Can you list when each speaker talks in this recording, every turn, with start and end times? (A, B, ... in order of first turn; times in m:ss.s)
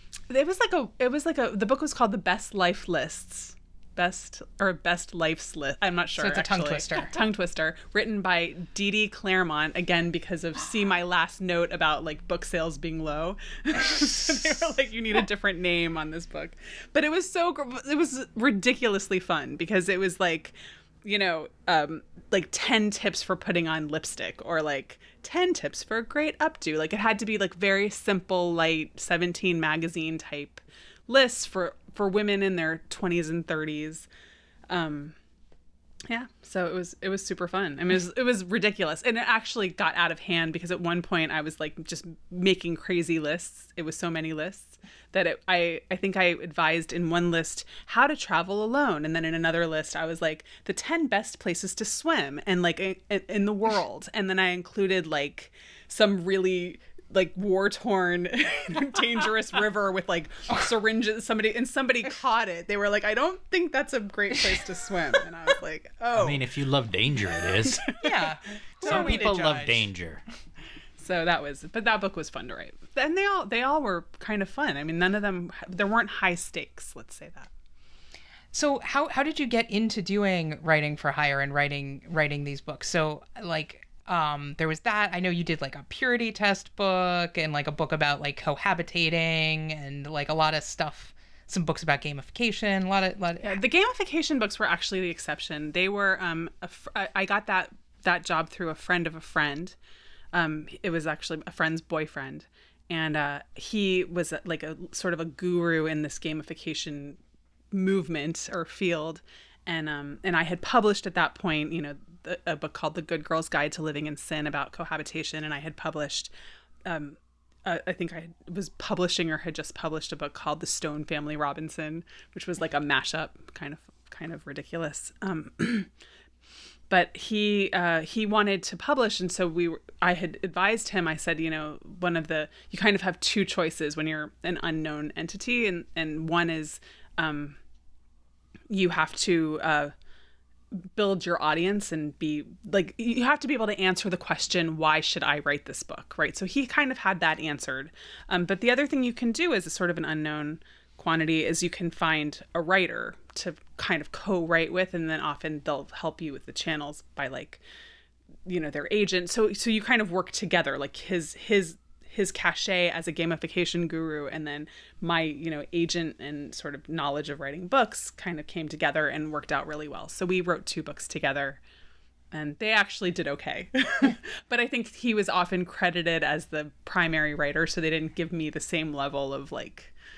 0:00.3-0:34.1 A
0:06.2-0:07.2 B
0:34.7-0:35.2 A
0:36.1-1:06.5 A
1:06.1-1:08.0 C
1:07.7-1:08.0 A
1:08.0-1:09.9 B
1:08.8-1:10.2 C
1:08.8-1:09.3 A
1:11.0-1:17.5 A
1:18.5-1:33.6 B
1:33.4-1:39.8 A
1:40.3-1:47.2 A
1:47.7-1:56.3 A
1:56.9-2:05.9 A
2:06.9-2:17.6 A
2:18.7-2:19.9 A
2:20.7-2:37.6 A
2:38.5-2:51.6 A
2:52.3-2:59.9 A